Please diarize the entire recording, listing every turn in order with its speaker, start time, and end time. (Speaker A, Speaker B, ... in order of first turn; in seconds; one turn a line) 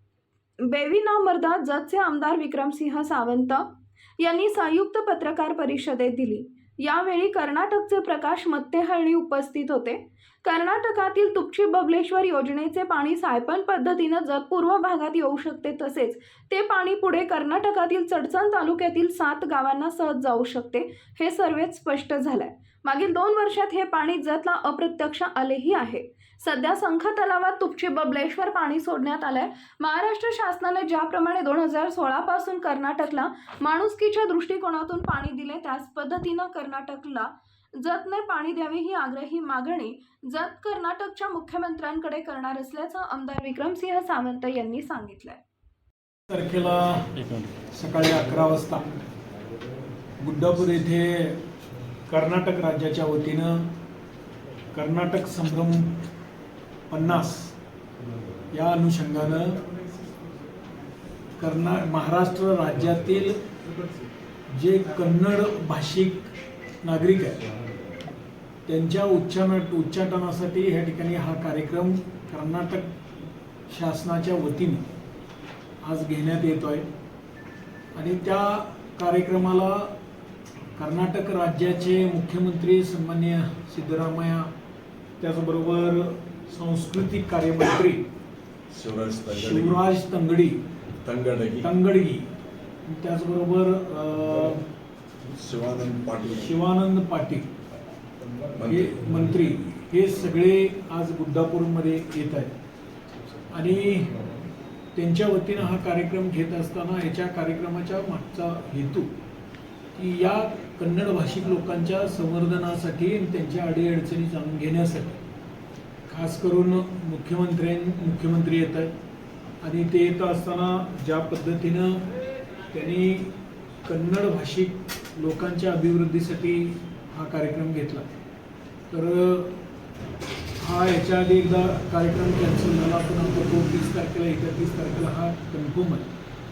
Speaker A: 0.6-45.4
Speaker B: 46.3-48.9
Speaker B: 50.2-51.4
Speaker B: 52.1-53.7
Speaker B: 54.7-56.0
Speaker B: 56.9-57.5
Speaker B: 58.5-59.6
Speaker B: 61.4-63.4
Speaker B: 64.5-66.3
Speaker B: 66.8-67.4
Speaker B: 68.7-72.9
Speaker B: 73.7-74.8
Speaker B: 75.8-76.8
Speaker B: 77.9-79.9
Speaker B: 80.8-84.5
Speaker B: 85.2-88.0
Speaker C: 88.7-89.9
Speaker B: 89.3-90.6
Speaker C: 91.0-91.7
Speaker B: 91.6-92.2
Speaker B: 92.8-94.7
Speaker C: 95.3-96.5
Speaker B: 96.4-97.5
Speaker C: 98.5-99.6
Speaker B: 98.6-102.5
Speaker B: 103.5-104.1
Speaker B: 104.9-109.1
Speaker B: 109.9-115.2
Speaker B: 116.1-118.9
Speaker B: 119.6-122.0
Speaker B: 122.7-123.3
Speaker B: 123.8-128.1
Speaker B: 128.9-129.6
Speaker B: 130.6-136.1